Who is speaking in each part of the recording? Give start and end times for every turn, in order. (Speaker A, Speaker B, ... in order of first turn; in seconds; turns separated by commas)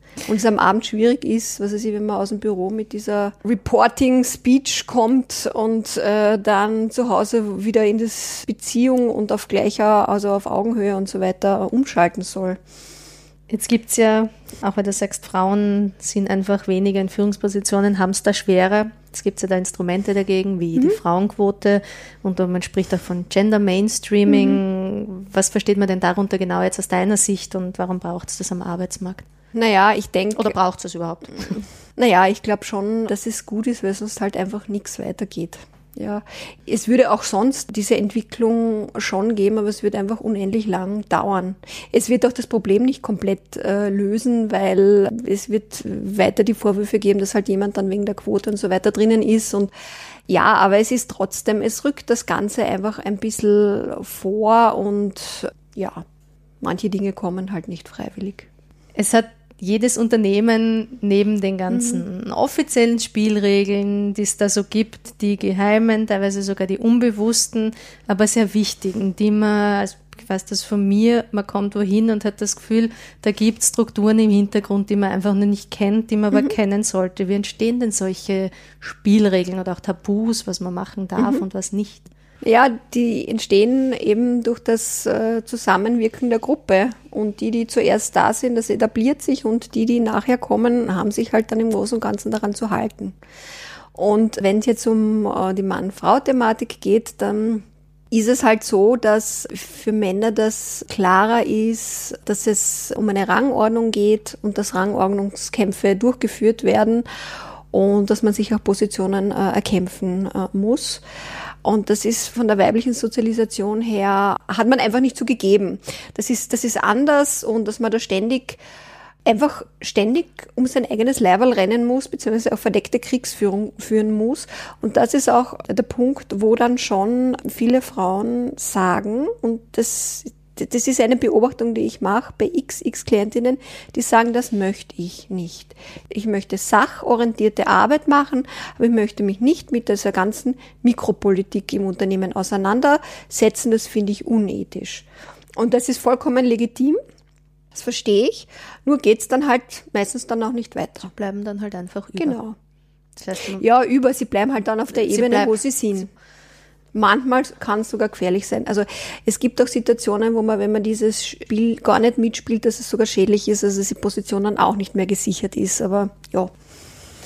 Speaker A: 0.3-12.6, Speaker B: 13.5-29.2, Speaker A: 24.3-24.6, Speaker A: 29.5-30.6, Speaker B: 30.4-31.6, Speaker A: 32.0-49.7, Speaker A: 50.3-56.0, Speaker A: 56.6-58.5, Speaker B: 59.0-82.1, Speaker A: 61.7-62.0, Speaker A: 81.2-81.4, Speaker A: 82.4-93.2, Speaker A: 94.0-107.0, Speaker A: 107.7-111.0, Speaker A: 111.6-118.6, Speaker A: 119.2-145.1, Speaker A: 145.6-147.0, Speaker A: 147.7-151.1, Speaker B: 151.0-152.4, Speaker A: 152.2-152.6, Speaker B: 153.2-153.6, Speaker A: 153.6-156.1, Speaker B: 154.9-155.6, Speaker A: 156.9-166.5